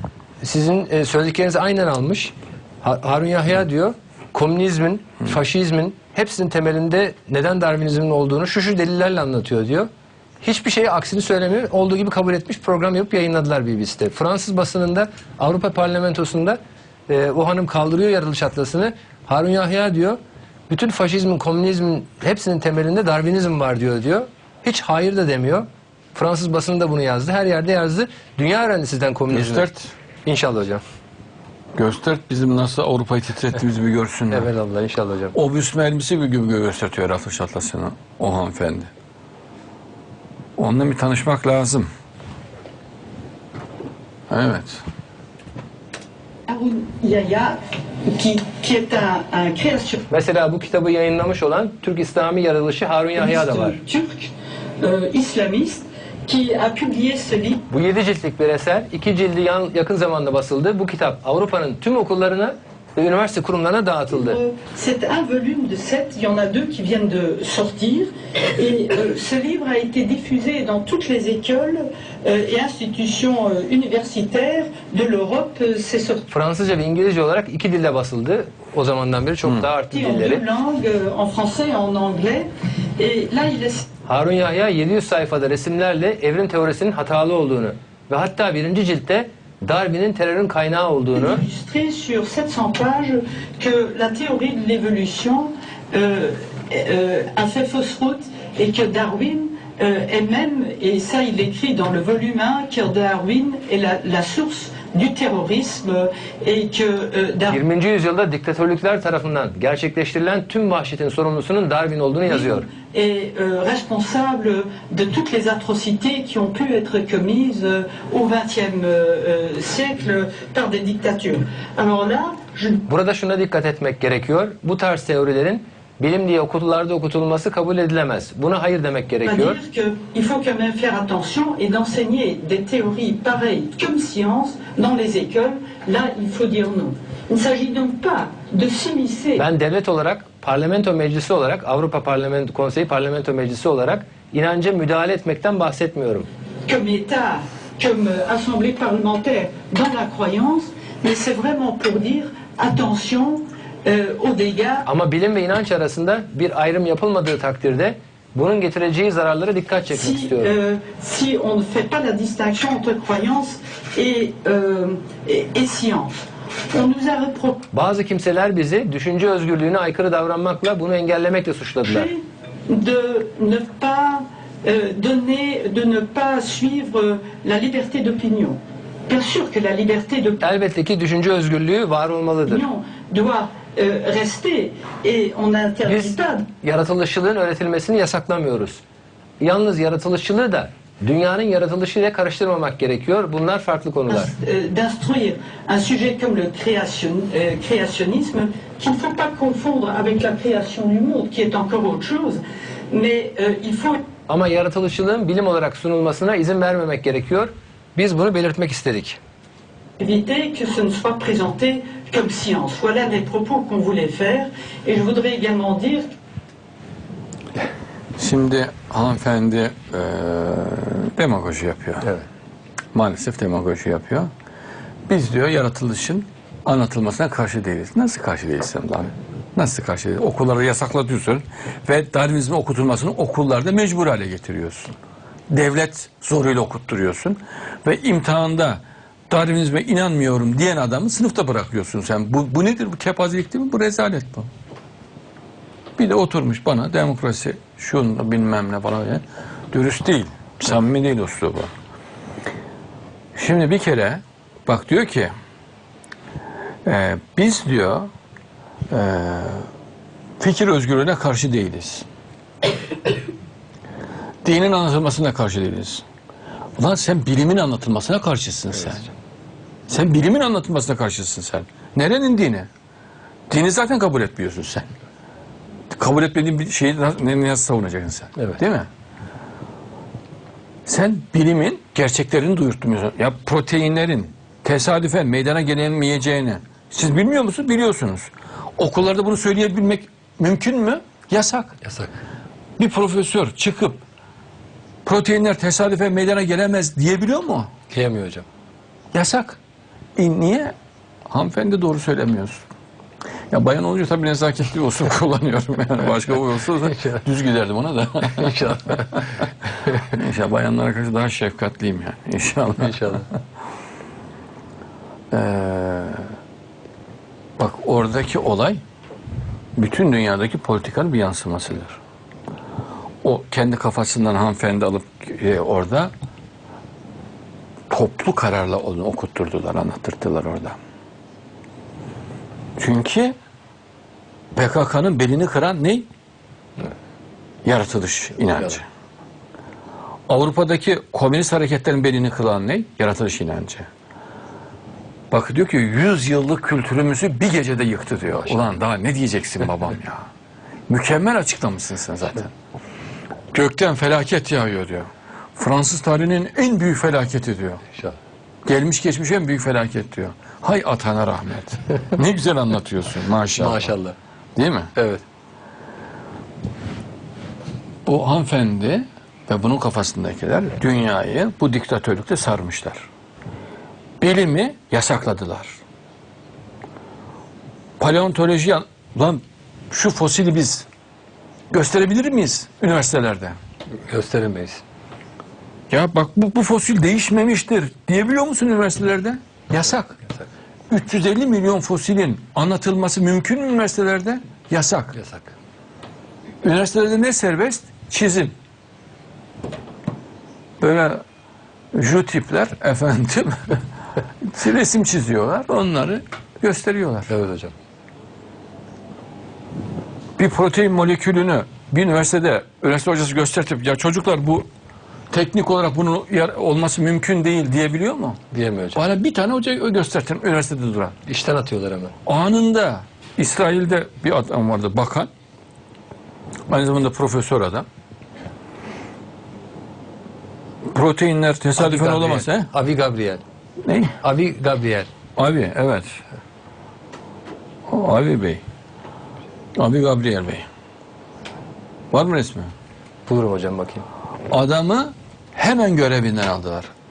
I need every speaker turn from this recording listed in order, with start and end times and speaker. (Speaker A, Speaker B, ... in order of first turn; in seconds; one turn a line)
Speaker A: 0.4-9.9
Speaker A: 10.4-20.2
Speaker A: 20.7-29.7
Speaker B: 29.3-29.9
Speaker A: 30.3-30.8
Speaker B: 31.8-34.5
Speaker A: 34.3-35.3
Speaker B: 35.3-38.9
Speaker B: 40.5-41.9
Speaker B: 44.3-44.8
Speaker C: 46.5-47.5
Speaker C: 48.1-50.1
Speaker A: 50.1-53.8
Speaker C: 53.1-54.3
Speaker C: 54.8-57.6
Speaker A: 57.7-64.4
Speaker C: 64.1-76.2
Speaker A: 76.3-80.4
Speaker C: 79.9-83.8
Speaker A: 84.1-91.4
Speaker C: 91.1-107.6
Speaker A: 107.5-112.7
Speaker C: 112.2-122.8
Speaker A: 122.9-129.6
Speaker C: 129.2-139.4
Speaker A: 139.3-146.3
Speaker C: 146.7-154.9
Speaker A: 154.8-160.6
Speaker C: 159.9-166.1
Speaker C: 166.7-167.6
Speaker A: 167.7-172.1
Speaker C: 171.8-178.6
Speaker C: 179.1-180.4
Speaker A: 180.4-182.6
Speaker C: 182.4-186.4
Speaker A: 185.8-188.8
Speaker A: 189.4-194.3
Speaker C: 194.1-204.0
Speaker A: 204.3-209.2
Speaker C: 210.0-216.1
Speaker B: 218.2-222.1
Speaker B: 222.9-224.3
Speaker B: 225.1-234.9
Speaker B: 235.5-244.5
Speaker B: 246.0-251.7
Speaker B: 253.3-255.3
Speaker B: 256.9-258.1
Speaker B: 258.9-259.6
Speaker B: 260.4-262.1
Speaker B: 264.4-266.0
Speaker B: 266.8-269.1
Speaker B: 269.9-272.7
Speaker B: 273.5-274.9
Speaker B: 275.9-278.9
Speaker B: 280.9-291.8
Speaker A: 291.8-292.2
Speaker B: 292.8-294.0
Speaker B: 295.1-297.7
Speaker A: 297.9-298.5
Speaker B: 299.1-299.6
Speaker B: 300.2-300.7
Speaker B: 301.3-302.6
Speaker B: 303.5-309.2
Speaker A: 308.4-309.2
Speaker B: 309.9-313.3
Speaker A: 312.8-313.2
Speaker B: 315.3-316.2
Speaker B: 317.6-318.8
Speaker B: 319.8-322.0
Speaker B: 323.2-326.1
Speaker B: 327.9-330.8
Speaker B: 332.8-333.4
Speaker B: 334.5-336.1
Speaker B: 337.6-338.9
Speaker B: 340.3-343.9
Speaker B: 345.3-350.2
Speaker B: 350.9-352.5
Speaker B: 353.5-357.8
Speaker B: 358.7-363.9
Speaker A: 363.6-364.1
Speaker B: 364.6-364.9
Speaker A: 364.9-365.2
Speaker B: 368.1-373.1
Speaker B: 374.2-375.8
Speaker B: 378.0-380.9
Speaker B: 381.7-383.6
Speaker A: 384.1-384.8
Speaker B: 385.9-390.1
Speaker B: 390.9-395.1
Speaker A: 395.1-395.5
Speaker B: 396.6-398.5
Speaker B: 400.8-401.2
Speaker B: 401.9-403.8
Speaker B: 404.4-407.3
Speaker A: 407.3-407.7
Speaker B: 410.4-414.7
Speaker B: 415.3-418.4
Speaker A: 418.5-419.0
Speaker B: 418.9-421.1
Speaker A: 421.2-422.1
Speaker B: 422.2-425.3
Speaker B: 426.7-427.9
Speaker B: 430.9-432.7
Speaker A: 431.8-433.4
Speaker B: 433.9-434.1
Speaker A: 434.2-435.1
Speaker B: 435.4-436.2
Speaker B: 437.9-438.6
Speaker B: 439.8-440.6
Speaker B: 442.1-442.7
Speaker A: 443.2-444.1
Speaker B: 444.5-446.9